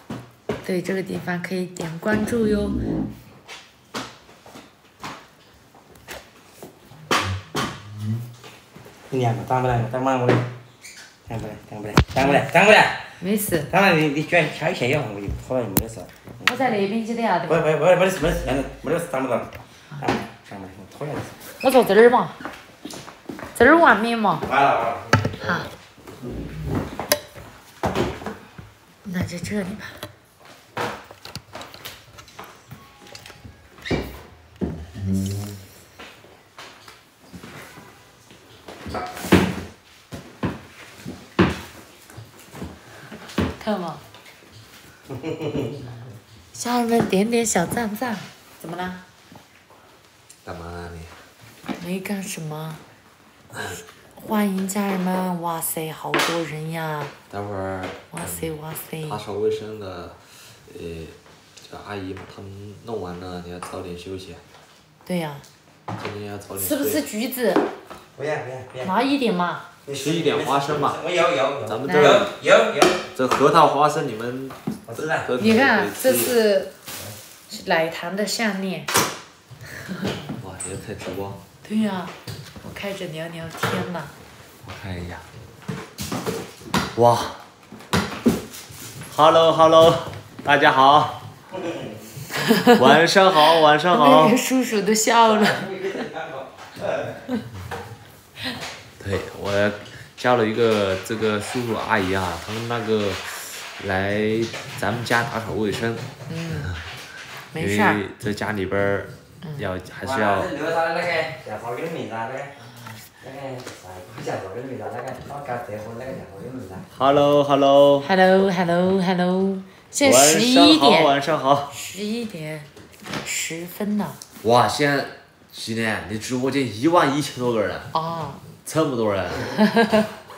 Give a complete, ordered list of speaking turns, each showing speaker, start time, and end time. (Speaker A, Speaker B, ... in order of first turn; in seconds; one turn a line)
Speaker A: 0.6-2.8
Speaker B: 9.1-10.5
Speaker B: 11.3-13.1
Speaker A: 13.2-13.7
Speaker B: 13.7-16.5
Speaker A: 16.4-17.6
Speaker B: 17.5-21.4
Speaker A: 21.6-22.4
Speaker A: 23.5-24.5
Speaker B: 24.4-25.4
Speaker A: 25.4-25.7
Speaker A: 29.0-30.0
Speaker A: 43.6-44.0
Speaker A: 46.5-49.0
Speaker C: 50.4-51.1
Speaker A: 51.7-52.8
Speaker A: 54.1-57.1
Speaker C: 57.3-58.5
Speaker A: 58.1-59.2
Speaker C: 59.0-64.4
Speaker A: 65.0-65.4
Speaker C: 65.9-67.0
Speaker A: 66.5-67.6
Speaker B: 68.1-68.9
Speaker A: 68.8-69.6
Speaker B: 69.8-73.0
Speaker C: 69.9-71.0
Speaker C: 71.6-72.3
Speaker A: 71.8-72.1
Speaker C: 73.1-76.3
Speaker B: 74.9-75.3
Speaker A: 75.4-76.7
Speaker A: 77.5-78.9
Speaker C: 80.4-81.4
Speaker A: 81.6-84.1
Speaker C: 84.7-85.2
Speaker C: 86.9-87.4
Speaker C: 89.1-91.2
Speaker A: 92.4-92.7
Speaker C: 92.6-94.3
Speaker A: 93.9-95.7
Speaker B: 95.2-97.1
Speaker C: 99.0-106.1
Speaker A: 106.3-106.8
Speaker A: 107.5-108.0
Speaker C: 107.5-110.5
Speaker B: 110.0-112.5
Speaker B: 113.2-116.9
Speaker C: 116.9-118.1
Speaker A: 118.0-121.1
Speaker C: 120.0-121.7
Speaker A: 121.7-122.7
Speaker A: 123.2-124.2
Speaker C: 124.4-127.9
Speaker A: 127.9-128.4
Speaker C: 128.6-129.7